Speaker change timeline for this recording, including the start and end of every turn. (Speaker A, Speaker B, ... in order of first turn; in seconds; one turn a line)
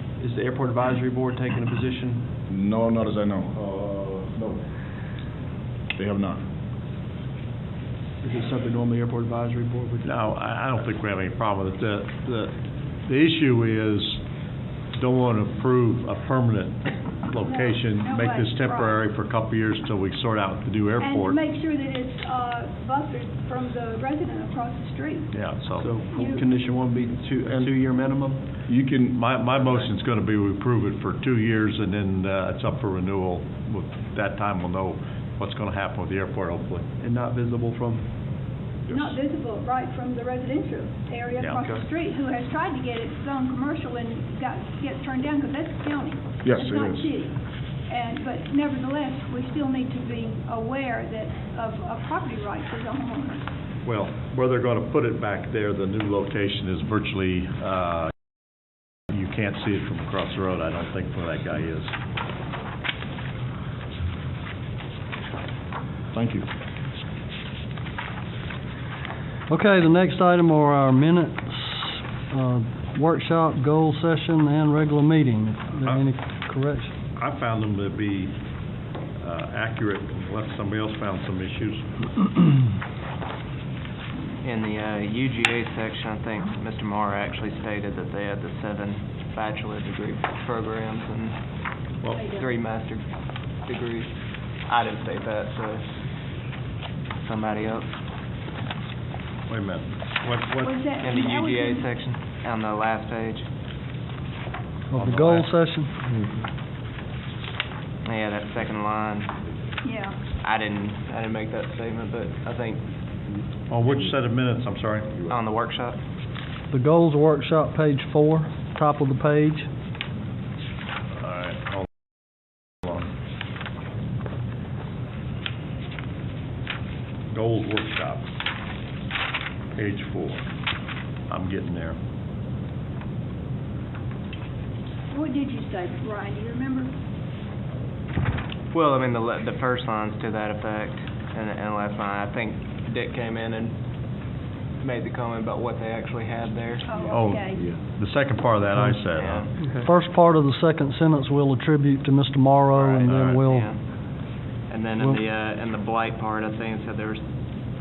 Speaker A: 0.1-2.3
Speaker B: 2.5-4.6
Speaker B: 6.0-6.4
Speaker A: 8.2-10.1
Speaker C: 10.0-12.5
Speaker C: 13.1-14.2
Speaker C: 14.9-21.4
Speaker D: 17.4-19.1
Speaker D: 21.0-25.3
Speaker C: 25.3-26.0
Speaker A: 25.8-28.4
Speaker D: 26.1-26.5
Speaker B: 28.7-29.2
Speaker C: 29.1-36.9
Speaker A: 37.0-38.1
Speaker D: 38.9-53.5
Speaker A: 41.6-41.9
Speaker B: 46.4-47.1
Speaker C: 53.9-58.1
Speaker C: 59.1-61.9
Speaker B: 66.1-66.5
Speaker E: 69.5-76.9
Speaker C: 77.1-78.3
Speaker C: 79.2-82.0
Speaker F: 84.4-91.4
Speaker D: 92.2-92.5
Speaker F: 92.2-93.1
Speaker F: 93.7-94.1
Speaker F: 94.7-95.9
Speaker F: 97.2-97.9
Speaker C: 99.5-100.8
Speaker D: 100.6-102.0
Speaker F: 101.0-103.5
Speaker E: 104.9-105.9
Speaker C: 104.9-105.5
Speaker F: 108.0-109.3
Speaker D: 109.8-110.2
Speaker F: 110.4-112.8
Speaker C: 113.7-115.2
Speaker F: 115.3-116.0
Speaker E: 116.7-119.7
Speaker C: 121.2-121.9
Speaker C: 122.8-123.1
Speaker C: 127.3-128.2
Speaker C: 129.8-130.4
Speaker C: 131.3-132.0
Speaker D: 135.1-136.9
Speaker F: 138.7-143.8
Speaker F: 144.8-147.0
Speaker D: 146.8-147.8
Speaker C: 147.1-149.8
Speaker F: 149.1-149.6
Speaker E: 149.8-153.7
Speaker F: 152.8-153.8
Speaker C: 152.9-153.4
Speaker F: 154.7-157.2